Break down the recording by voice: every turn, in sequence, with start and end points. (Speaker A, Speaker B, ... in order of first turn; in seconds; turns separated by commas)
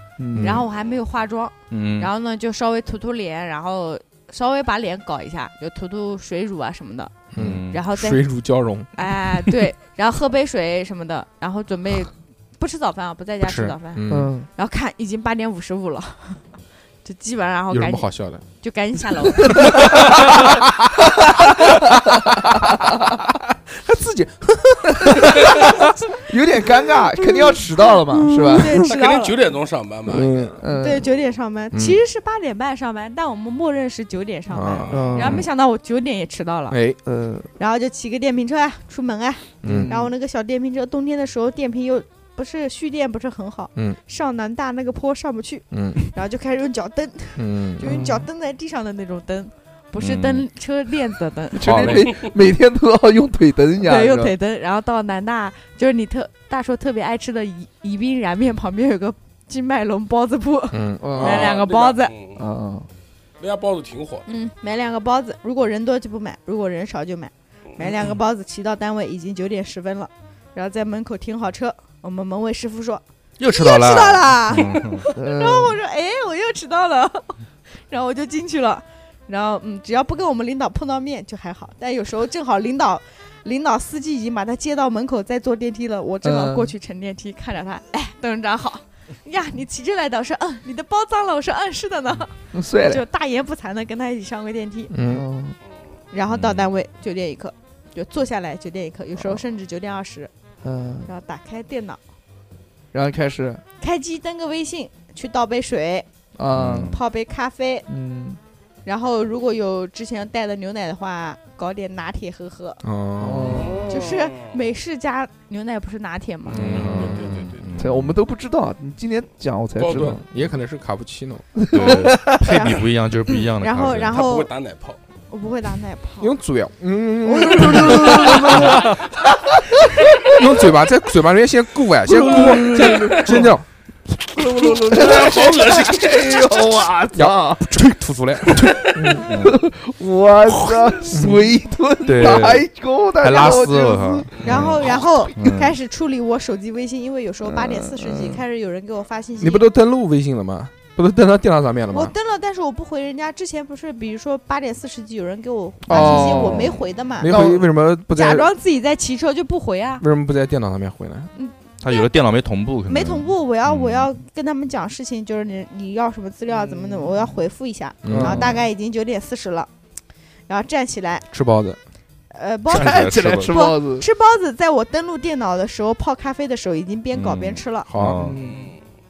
Speaker A: 0.2-0.6, Speaker B: 0.4-8.2, Speaker C: 1.7-2.1, Speaker D: 7.3-8.9, Speaker C: 7.3-7.8, Speaker B: 8.9-16.4, Speaker D: 13.4-14.3, Speaker A: 14.1-14.5, Speaker B: 17.0-20.1, Speaker D: 17.7-18.4, Speaker A: 19.6-20.2, Speaker A: 22.5-22.9, Speaker D: 23.7-25.9, Speaker A: 24.9-25.4, Speaker A: 26.2-28.8, Speaker B: 27.5-29.4, Speaker E: 28.7-30.5, Speaker D: 30.1-30.6, Speaker A: 30.6-31.0, Speaker B: 30.7-36.8, Speaker D: 31.7-32.0, Speaker D: 34.5-35.4, Speaker A: 34.9-35.4, Speaker D: 36.7-37.0, Speaker A: 37.0-37.5, Speaker B: 37.6-52.0, Speaker D: 39.6-40.0, Speaker A: 39.6-40.1, Speaker D: 45.7-46.0, Speaker D: 47.4-48.1, Speaker A: 47.8-48.2, Speaker C: 50.0-50.5, Speaker A: 51.5-54.3, Speaker D: 51.6-52.1, Speaker B: 53.8-62.1, Speaker D: 60.7-61.5, Speaker A: 61.0-61.5, Speaker E: 61.2-62.4, Speaker A: 62.4-62.9, Speaker E: 63.4-64.3, Speaker B: 64.3-77.3, Speaker C: 73.4-75.1, Speaker A: 75.1-75.8, Speaker B: 77.9-94.9, Speaker A: 86.2-86.7, Speaker A: 92.5-93.0, Speaker D: 94.9-95.2, Speaker A: 95.1-95.5, Speaker B: 96.1-100.3, Speaker C: 96.3-96.7, Speaker A: 100.6-101.1, Speaker B: 101.1-102.0, Speaker A: 102.9-103.6, Speaker B: 103.8-106.0, Speaker A: 106.4-107.0, Speaker C: 106.6-106.9, Speaker B: 106.8-107.8, Speaker A: 107.9-108.4, Speaker B: 108.8-112.8, Speaker D: 112.8-113.8, Speaker A: 113.2-113.9, Speaker E: 113.7-114.5, Speaker B: 113.9-116.9, Speaker D: 116.5-117.5, Speaker C: 116.6-118.2, Speaker E: 116.8-117.7, Speaker A: 117.8-120.2, Speaker E: 119.8-120.2, Speaker D: 119.9-121.9, Speaker A: 121.6-122.7, Speaker C: 121.7-124.3, Speaker B: 122.5-122.9, Speaker B: 123.6-124.5, Speaker E: 124.1-125.0, Speaker B: 125.3-126.3, Speaker D: 126.2-128.9, Speaker A: 127.3-130.3, Speaker B: 127.4-128.3, Speaker D: 130.2-133.7, Speaker A: 132.1-133.5, Speaker E: 132.4-133.2, Speaker A: 134.3-137.7, Speaker E: 134.7-136.5, Speaker D: 137.1-139.4, Speaker A: 138.8-145.4, Speaker C: 139.2-139.6, Speaker D: 141.1-141.4, Speaker C: 142.0-142.7, Speaker C: 143.2-144.8, Speaker B: 144.4-149.6, Speaker C: 145.3-145.7, Speaker A: 147.4-148.4, Speaker D: 149.4-152.1, Speaker B: 151.9-157.6, Speaker A: 155.8-157.6, Speaker D: 157.2-158.5, Speaker B: 158.1-160.0, Speaker D: 160.0-161.3, Speaker B: 161.3-162.1, Speaker C: 161.8-164.1, Speaker B: 162.9-169.7, Speaker A: 166.5-167.4, Speaker D: 168.0-168.5, Speaker A: 168.1-168.7, Speaker B: 170.5-171.2, Speaker D: 171.3-171.8, Speaker B: 172.3-177.9, Speaker C: 172.7-173.6, Speaker A: 172.7-174.1, Speaker C: 177.1-178.4, Speaker D: 177.9-178.3, Speaker A: 178.1-178.7, Speaker E: 178.4-178.8